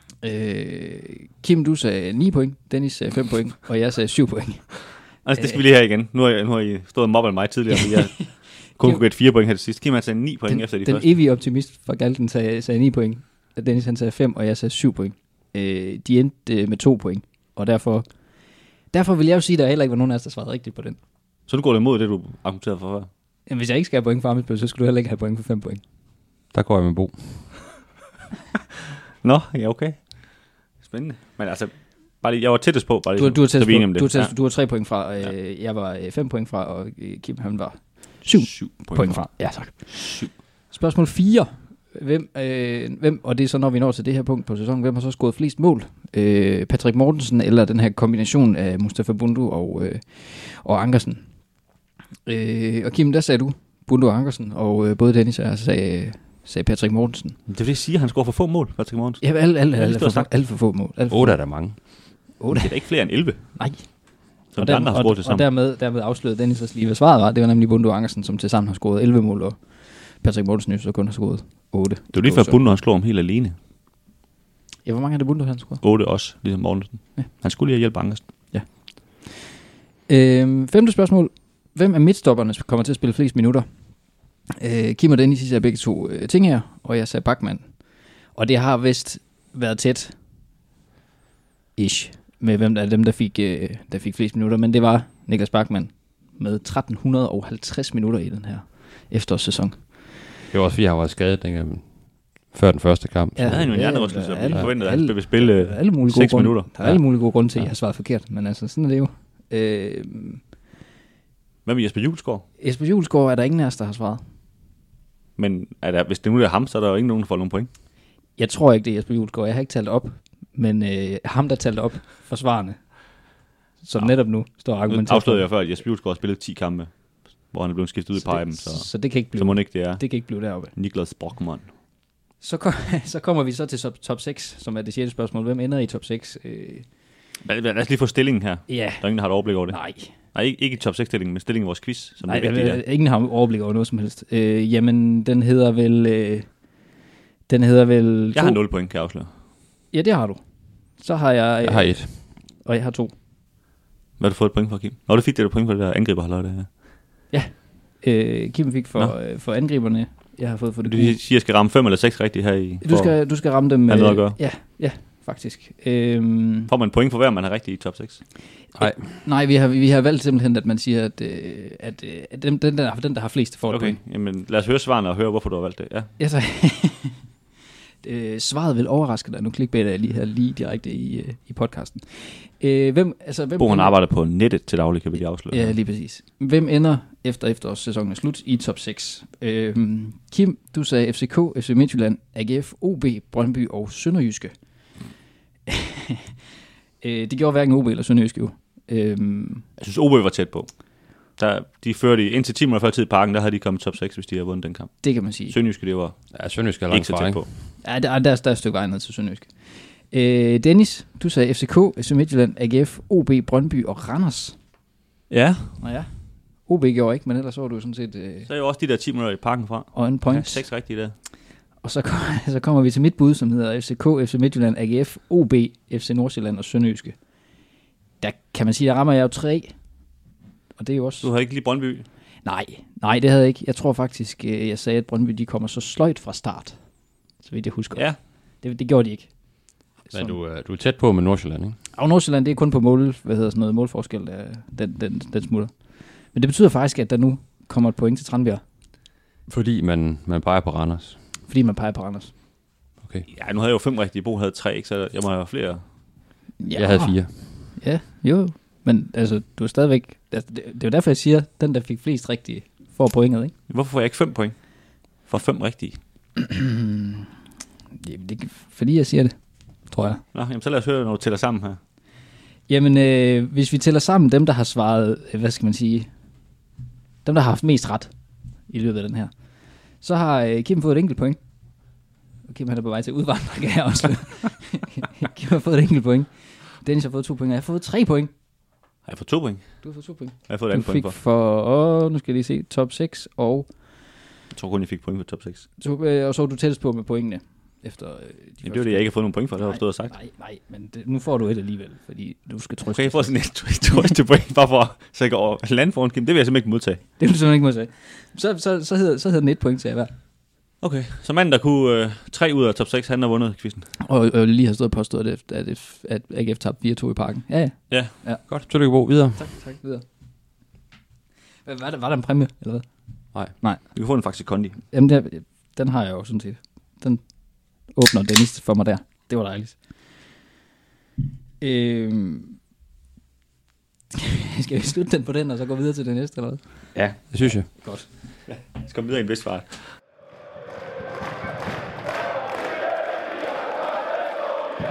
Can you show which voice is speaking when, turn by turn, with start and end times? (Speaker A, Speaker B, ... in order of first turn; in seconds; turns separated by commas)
Speaker A: 0.2-5.6, Speaker B: 5.2-11.1, Speaker A: 7.9-9.0, Speaker A: 10.5-21.0, Speaker B: 21.5-23.1, Speaker A: 23.5-25.8, Speaker C: 26.5-27.6, Speaker B: 29.2-35.3, Speaker A: 33.2-51.5, Speaker B: 38.3-40.4, Speaker A: 52.3-57.4, Speaker B: 57.5-60.3, Speaker A: 59.2-72.7, Speaker C: 61.1-62.1, Speaker B: 62.5-64.0, Speaker B: 64.5-65.5, Speaker B: 72.1-73.6, Speaker A: 74.8-75.8, Speaker B: 75.8-78.3, Speaker A: 78.5-79.5, Speaker A: 80.1-90.2, Speaker A: 91.8-100.2, Speaker C: 100.5-104.0, Speaker A: 103.4-110.5, Speaker B: 103.5-106.7, Speaker C: 106.8-107.7, Speaker B: 111.7-112.5, Speaker A: 112.6-114.3, Speaker B: 115.4-117.7, Speaker A: 118.3-125.5, Speaker B: 124.0-131.7, Speaker A: 128.2-130.7, Speaker A: 132.4-136.9, Speaker B: 137.4-142.8, Speaker A: 138.7-140.2, Speaker A: 142.2-146.8, Speaker A: 147.5-148.6, Speaker B: 148.3-149.3, Speaker A: 149.9-153.1, Speaker C: 151.6-152.1, Speaker B: 154.2-156.7, Speaker A: 157.3-161.2, Speaker B: 160.8-164.4, Speaker A: 162.8-166.7, Speaker B: 166.7-168.3, Speaker C: 168.8-169.2, Speaker A: 168.8-174.0, Speaker B: 173.7-176.2, Speaker A: 176.2-177.2, Speaker A: 178.0-183.9, Speaker B: 183.6-185.8, Speaker A: 185.5-195.0, Speaker A: 197.0-199.7, Speaker B: 199.8-207.5, Speaker A: 205.0-205.6, Speaker C: 206.3-207.5, Speaker A: 207.8-214.6, Speaker B: 215.3-215.9, Speaker A: 215.8-218.5, Speaker B: 218.5-221.2, Speaker A: 219.9-220.9, Speaker A: 221.8-227.3, Speaker A: 228.2-229.8, Speaker A: 230.8-231.3, Speaker B: 231.2-232.1, Speaker A: 232.4-240.4, Speaker C: 240.1-241.8, Speaker A: 241.9-248.6, Speaker C: 249.5-251.2, Speaker A: 251.5-252.3, Speaker C: 253.0-253.3, Speaker B: 253.3-255.9, Speaker A: 256.6-263.6, Speaker C: 256.7-257.7, Speaker B: 263.7-266.0, Speaker A: 266.5-266.8, Speaker A: 268.0-270.2, Speaker B: 270.3-271.8, Speaker A: 272.7-276.1, Speaker A: 277.2-278.1, Speaker A: 278.7-281.8, Speaker A: 282.5-288.3, Speaker B: 289.1-291.2, Speaker A: 289.8-293.8, Speaker B: 294.5-295.6, Speaker A: 295.8-304.1, Speaker B: 298.6-300.2, Speaker B: 302.9-307.0, Speaker A: 307.2-310.1, Speaker B: 310.8-313.9, Speaker A: 314.0-320.1, Speaker B: 317.9-318.4, Speaker C: 318.5-319.6, Speaker A: 321.6-324.2, Speaker B: 323.9-324.9, Speaker A: 324.9-329.9, Speaker A: 331.6-332.6, Speaker A: 334.6-338.1, Speaker B: 336.9-340.0, Speaker C: 337.3-337.7